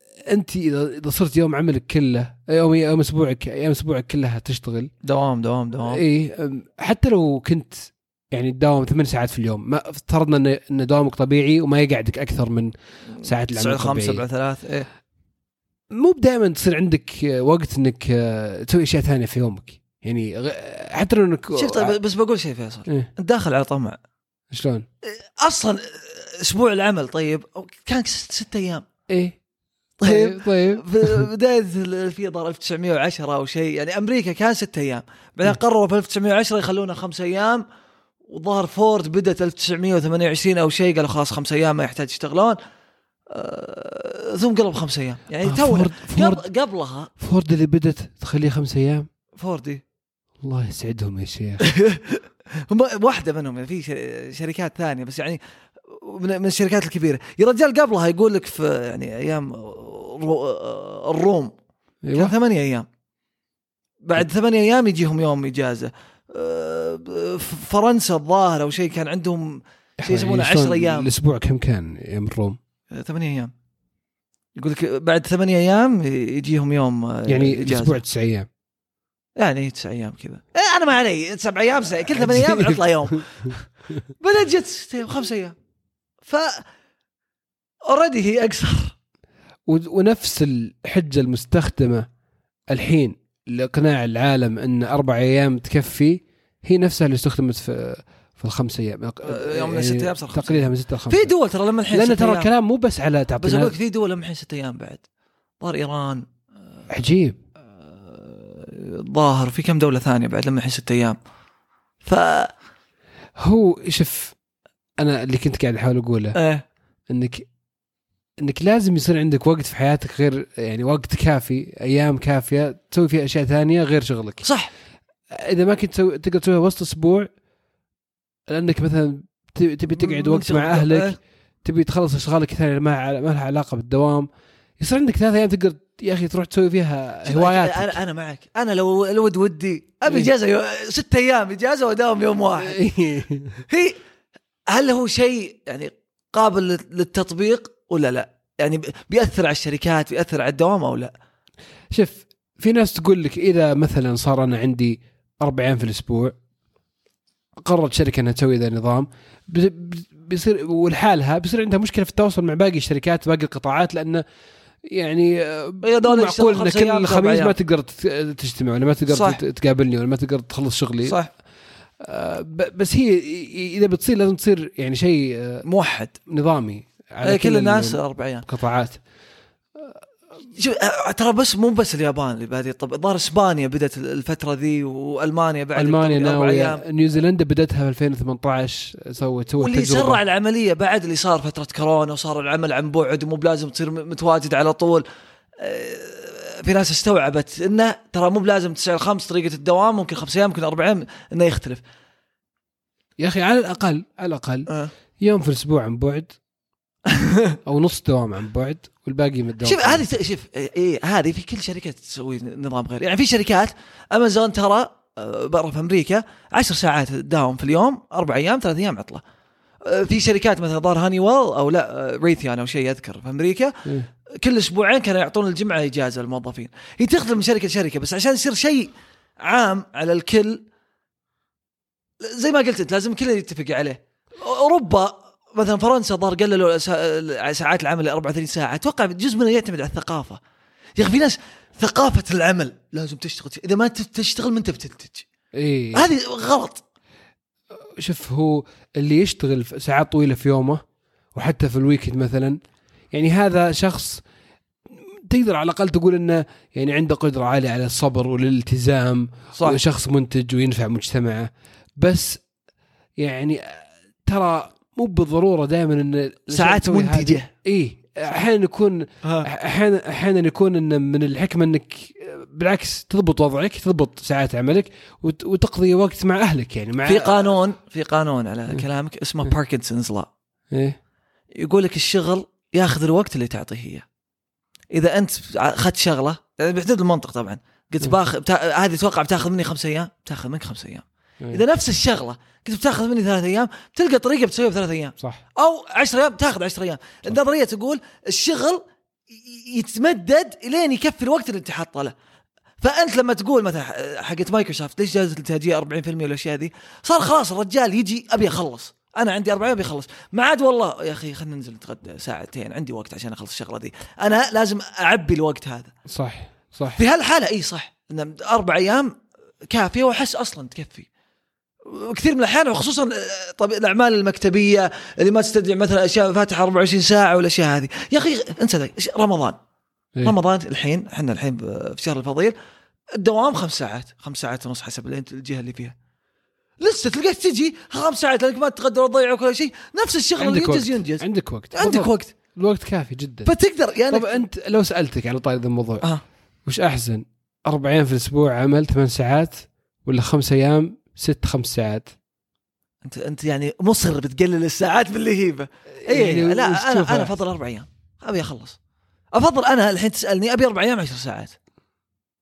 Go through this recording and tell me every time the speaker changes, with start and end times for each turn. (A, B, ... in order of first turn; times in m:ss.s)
0:00.3-0:04.9 A
0:05.0-0:06.0 B
0:05.9-0:12.7 A
0:13.2-0:14.2 A
0:13.2-0:14.9 B
0:15.9-0:21.9 A
0:21.6-0:24.0 B
0:24.5-0:24.8 A
0:25.0-0:28.8 B
0:29.1-0:29.4 A
0:30.0-0:37.6 B
0:30.0-0:31.2 A
0:38.3-0:42.6 B
0:43.3-0:47.1 B
0:45.4-0:46.4 A
0:47.2-0:49.1 A
0:49.4-0:49.8 B
0:50.4-0:51.6 A
0:51.6-1:01.5 B
1:02.0-1:02.3 A
1:02.1-1:02.9 B
1:04.0-1:11.1 B
1:10.0-1:12.6 A
1:12.9-1:13.5 B
1:14.6-1:18.0 B
1:17.3-1:18.5 A
1:19.4-1:23.6 B
1:22.1-1:22.8 A
1:24.2-1:25.5 B
1:26.2-1:26.6 B
1:27.9-1:28.9 B
1:29.7-1:32.1 A
1:32.7-1:41.3 A
1:39.2-1:42.5 B
1:41.9-1:43.8 A
1:43.4-1:45.0 B
1:45.6-1:46.2 B
1:46.9-1:47.4 A
1:48.0-1:51.2 B
1:52.0-1:52.5 B
1:53.4-1:54.4 A
1:55.0-1:56.4 A
1:56.4-1:56.6 B
1:57.1-1:57.5 A
1:58.4-2:04.4 A
2:04.4-2:04.7 B
2:05.3-2:07.3 A
2:08.5-2:14.3 A
2:09.9-2:11.2 B
2:14.8-2:18.0 A
2:17.2-2:22.8 B
2:22.6-2:23.6 A
2:23.7-2:24.0 B
2:24.7-2:31.1 B
2:31.9-2:36.3 A
2:37.6-2:44.2 A
2:44.9-2:51.2 A
2:45.8-2:47.6 B
2:49.1-2:49.4 B
2:51.0-2:51.3 B
2:52.0-2:55.6 A
2:55.6-2:56.2 B
2:56.3-2:59.0 A
2:57.2-2:58.4 B
3:00.6-3:06.8 B
3:05.8-3:10.2 A
3:09.6-3:15.0 B
3:15.6-3:21.8 B
3:23.2-3:24.7 A
3:25.2-3:26.4 A
3:27.1-3:27.6 B
3:27.7-3:30.1 A
3:29.6-3:39.2 B
3:39.8-3:43.8 B
3:44.4-3:50.6 B
3:52.2-4:00.4 B
4:01.0-4:05.3 B
4:05.6-4:06.1 A
4:05.9-4:06.8 B
4:08.0-4:10.8 A
4:11.4-4:12.6 A
4:13.1-4:14.2 A
4:15.3-4:22.4 A
4:23.2-4:37.6 A
4:26.5-4:27.5 B
4:29.2-4:29.5 B
4:37.0-4:40.3 B
4:40.7-4:41.0 A
4:41.6-4:44.0 B
4:44.9-5:02.1 B
5:02.8-5:15.9 B
5:16.1-5:17.0 A
5:17.0-5:19.2 B
5:19.7-5:21.1 B
5:21.8-5:29.6 B
5:30.2-5:32.6 B
5:33.2-5:35.9 B
5:36.8-5:42.3 B
5:40.4-5:43.5 A
5:43.4-5:44.4 B
5:44.1-5:46.0 A
5:46.7-5:52.1 A
5:53.0-5:58.8 B
5:56.0-5:57.3 A
5:59.3-6:01.6 B